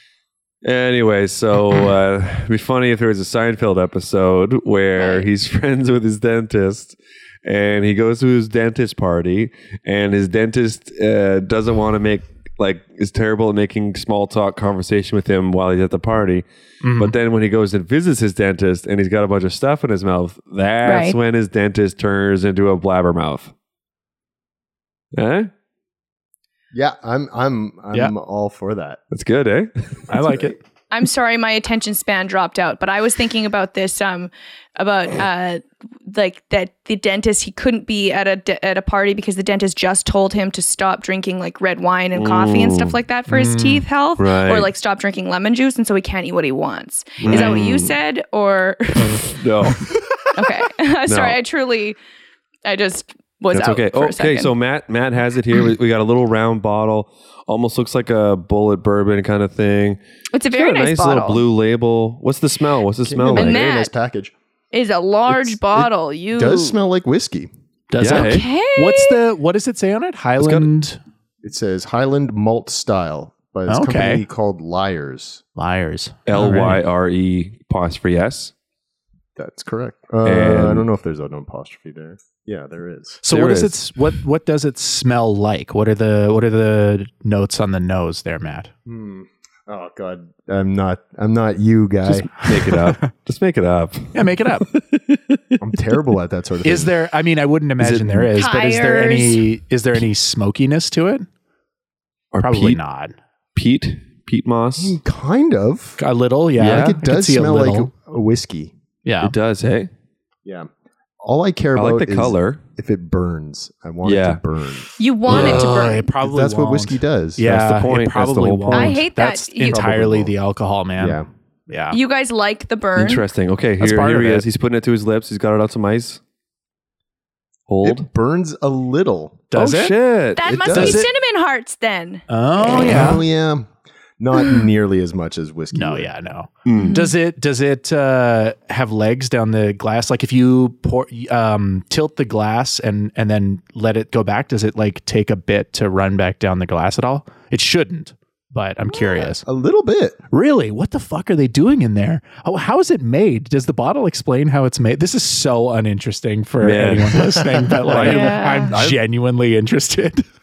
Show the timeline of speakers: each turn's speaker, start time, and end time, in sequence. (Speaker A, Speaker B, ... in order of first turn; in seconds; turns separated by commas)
Speaker A: 0.6-16.4, Speaker B: 5.0-5.3, Speaker C: 16.8-17.1, Speaker A: 17.0-23.5, Speaker B: 20.8-21.2, Speaker A: 25.1-25.5, Speaker D: 26.7-29.0, Speaker A: 29.1-30.0, Speaker D: 30.1-30.5, Speaker C: 30.1-30.6, Speaker B: 30.9-49.3, Speaker A: 42.1-43.0, Speaker C: 43.3-43.9, Speaker A: 44.2-44.7, Speaker A: 47.2-48.0, Speaker A: 49.3-49.9, Speaker B: 50.4-52.0, Speaker A: 51.1-51.4, Speaker B: 52.7-54.5, Speaker A: 53.5-60.0, Speaker B: 60.3-61.4, Speaker A: 60.5-63.7, Speaker D: 63.0-64.3, Speaker B: 63.3-63.9, Speaker B: 64.7-66.8, Speaker D: 66.3-67.5, Speaker C: 67.9-71.0, Speaker A: 68.0-68.4, Speaker B: 68.1-69.2, Speaker A: 70.4-70.7, Speaker D: 71.4-75.4, Speaker C: 73.7-74.2, Speaker C: 75.6-76.8, Speaker A: 76.3-78.5, Speaker D: 79.4-83.2, Speaker A: 80.2-80.9, Speaker C: 83.2-88.7, Speaker A: 83.3-83.8, Speaker D: 88.9-92.3, Speaker A: 92.1-95.6, Speaker C: 92.4-93.0, Speaker C: 94.2-94.7, Speaker D: 95.6-96.9, Speaker C: 96.6-101.3, Speaker A: 97.8-98.3, Speaker B: 98.3-99.4, Speaker A: 102.3-102.8, Speaker C: 102.4-103.2, Speaker A: 103.5-105.0, Speaker D: 104.8-106.0, Speaker C: 106.0-107.9, Speaker A: 106.6-107.0, Speaker D: 106.6-108.7, Speaker C: 109.0-109.3, Speaker A: 109.2-109.9, Speaker D: 111.2-115.4, Speaker A: 111.8-112.6, Speaker A: 114.0-114.4, Speaker B: 115.0-116.1, Speaker A: 115.3-115.7, Speaker C: 115.3-122.0, Speaker D: 116.2-117.5, Speaker A: 117.4-119.0, Speaker B: 118.7-119.8, Speaker D: 119.7-120.3, Speaker D: 121.0-121.3, Speaker B: 121.9-123.2, Speaker A: 123.0-126.2, Speaker C: 123.8-124.5, Speaker A: 127.7-128.1, Speaker D: 127.8-129.5, Speaker C: 129.5-129.9, Speaker A: 129.5-130.8, Speaker B: 130.4-132.2, Speaker D: 130.4-131.0, Speaker C: 130.7-131.1, Speaker C: 132.3-133.2, Speaker D: 132.6-136.1, Speaker C: 135.7-149.4, Speaker A: 136.7-137.0, Speaker B: 136.8-137.1, Speaker D: 148.9-150.2, Speaker C: 150.3-160.2, Speaker A: 156.6-157.3, Speaker A: 157.8-159.0, Speaker B: 158.0-158.7